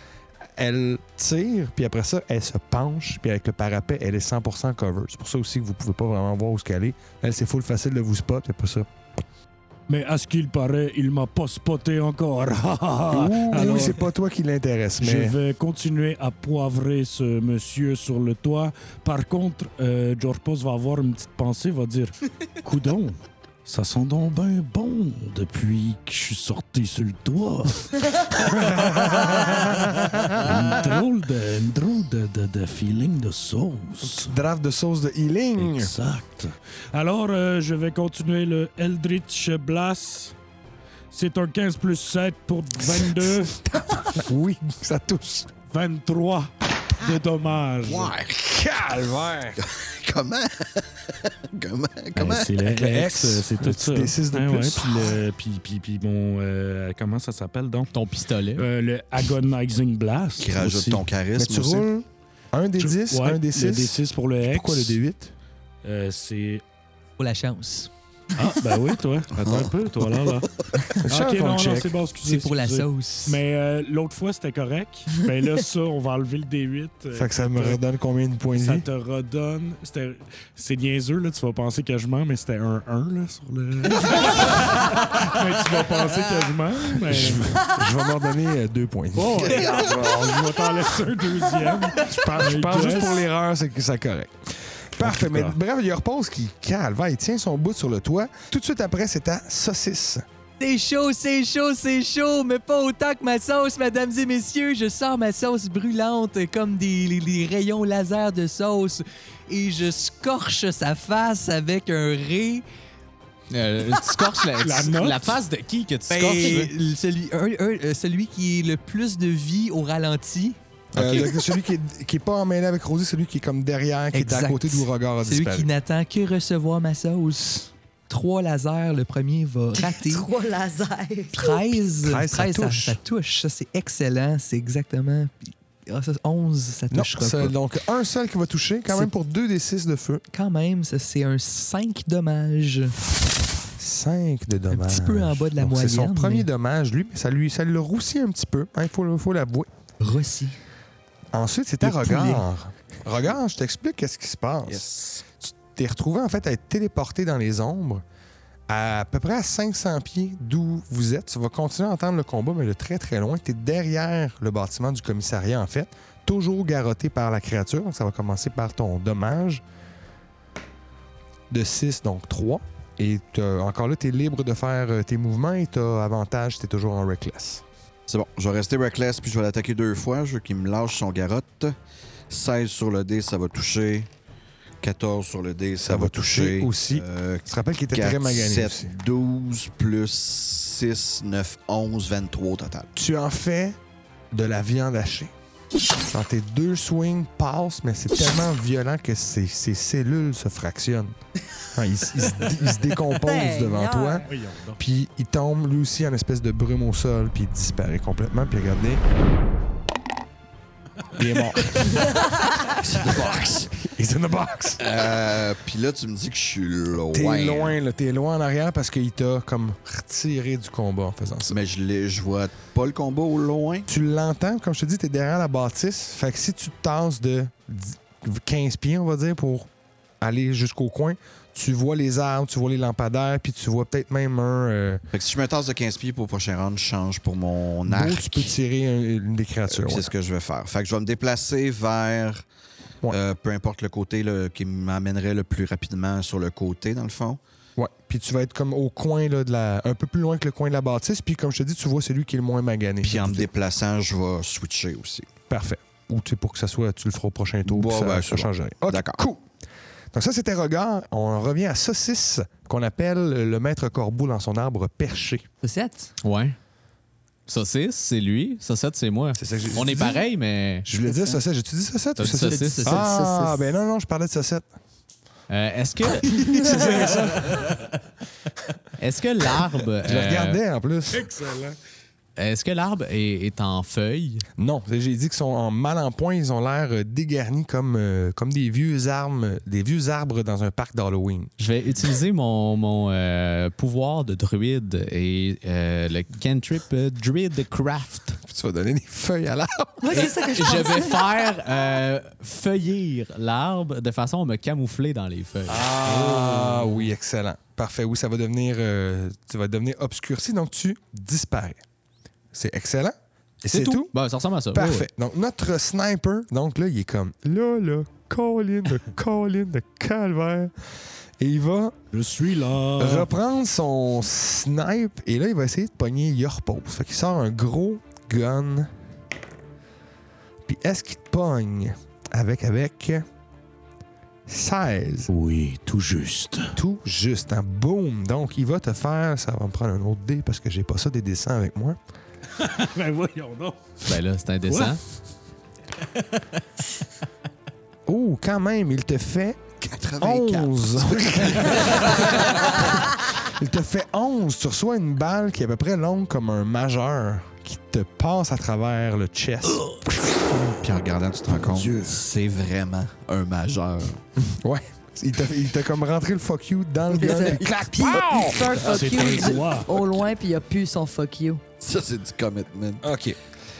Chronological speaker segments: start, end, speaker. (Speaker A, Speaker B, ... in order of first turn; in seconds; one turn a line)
Speaker A: 0.6-8.9
Speaker B: 9.9-14.1
Speaker A: 13.1-15.4
Speaker B: 15.0-34.4
Speaker A: 28.5-30.4
Speaker A: 34.0-35.9
Speaker B: 35.6-40.4
Speaker B: 41.1-43.6
Speaker A: 42.8-45.5
Speaker B: 45.7-48.1
Speaker C: 47.8-48.4
Speaker A: 48.4-49.6
Speaker C: 49.6-52.6
Speaker B: 52.1-57.9
Speaker A: 52.7-55.2
Speaker D: 57.9-58.6
Speaker B: 58.6-61.1
Speaker C: 60.4-61.9
Speaker A: 61.4-65.3
Speaker B: 62.8-65.0
Speaker B: 65.8-66.6
Speaker E: 67.2-67.9
Speaker B: 68.4-70.5
Speaker C: 69.4-69.7
Speaker C: 70.3-71.0
Speaker A: 71.0-71.9
Speaker B: 71.0-77.8
Speaker E: 72.2-73.4
Speaker A: 77.2-78.9
Speaker B: 78.5-87.6
Speaker A: 87.0-90.1
Speaker B: 89.2-93.3
Speaker A: 92.0-100.2
Speaker B: 95.0-95.5
Speaker E: 100.6-112.6
Speaker D: 113.5-116.7
Speaker B: 114.6-115.4
Speaker E: 116.1-120.6
Speaker A: 120.9-125.7
Speaker D: 120.9-121.4
Speaker E: 124.1-130.3
Speaker F: 129.8-131.6
Speaker E: 131.3-137.5
Speaker A: 132.0-133.0
Speaker A: 136.9-140.2
Speaker E: 140.3-142.9
Speaker A: 143.8-149.7
Speaker E: 144.7-146.5
Speaker E: 150.0-150.6
Speaker A: 151.3-158.0
Speaker E: 151.8-152.4
Speaker C: 154.7-155.2
Speaker A: 158.7-169.6
Speaker A: 171.5-177.6
Speaker C: 178.1-181.8
Speaker C: 182.3-184.1
Speaker C: 184.8-192.9
Speaker A: 185.8-188.9
Speaker A: 192.9-193.8
Speaker A: 194.3-195.3
Speaker A: 196.1-201.2
Speaker A: 201.7-209.0
Speaker F: 203.1-204.2
Speaker B: 204.2-204.8
Speaker A: 211.1-212.2
Speaker F: 212.1-212.4
Speaker C: 212.6-213.8
Speaker A: 213.1-214.8
Speaker C: 214.8-217.8
Speaker A: 217.1-221.6
Speaker C: 221.5-223.9
Speaker A: 223.9-229.7
Speaker A: 230.2-235.0
Speaker C: 235.1-238.5
Speaker A: 237.9-240.1
Speaker C: 239.7-242.4
Speaker C: 243.1-247.4
Speaker A: 247.8-253.5
Speaker C: 253.0-255.3
Speaker A: 255.5-259.5
Speaker C: 257.6-259.2
Speaker A: 260.1-265.5
Speaker E: 265.6-266.1
Speaker D: 266.2-266.6
Speaker D: 267.5-270.9
Speaker A: 269.4-270.2
Speaker A: 270.9-274.7
Speaker D: 272.2-273.1
Speaker E: 272.3-273.2
Speaker F: 273.1-273.6
Speaker D: 275.5-277.6
Speaker A: 276.6-277.7
Speaker D: 279.0-280.6
Speaker A: 280.0-281.3
Speaker B: 281.1-281.8
Speaker D: 282.4-284.4
Speaker A: 284.6-291.5
Speaker D: 291.6-298.4
Speaker A: 298.5-300.4
Speaker F: 300.0-301.3
Speaker D: 300.1-306.1
Speaker A: 305.7-311.8
Speaker A: 312.5-314.1
Speaker D: 313.7-315.1
Speaker A: 314.7-321.9
Speaker B: 322.1-323.3
Speaker A: 323.0-328.9
Speaker A: 330.6-333.2
Speaker A: 334.5-335.3
Speaker B: 335.3-336.8
Speaker A: 336.8-342.0
Speaker B: 342.6-345.0
Speaker D: 344.1-345.0
Speaker A: 348.1-349.6
Speaker C: 349.8-352.9
Speaker A: 350.2-360.2
Speaker C: 360.5-364.2
Speaker B: 361.5-362.2
Speaker A: 364.4-368.8
Speaker F: 367.1-371.6
Speaker B: 368.8-369.9
Speaker C: 371.8-373.0
Speaker A: 373.0-373.4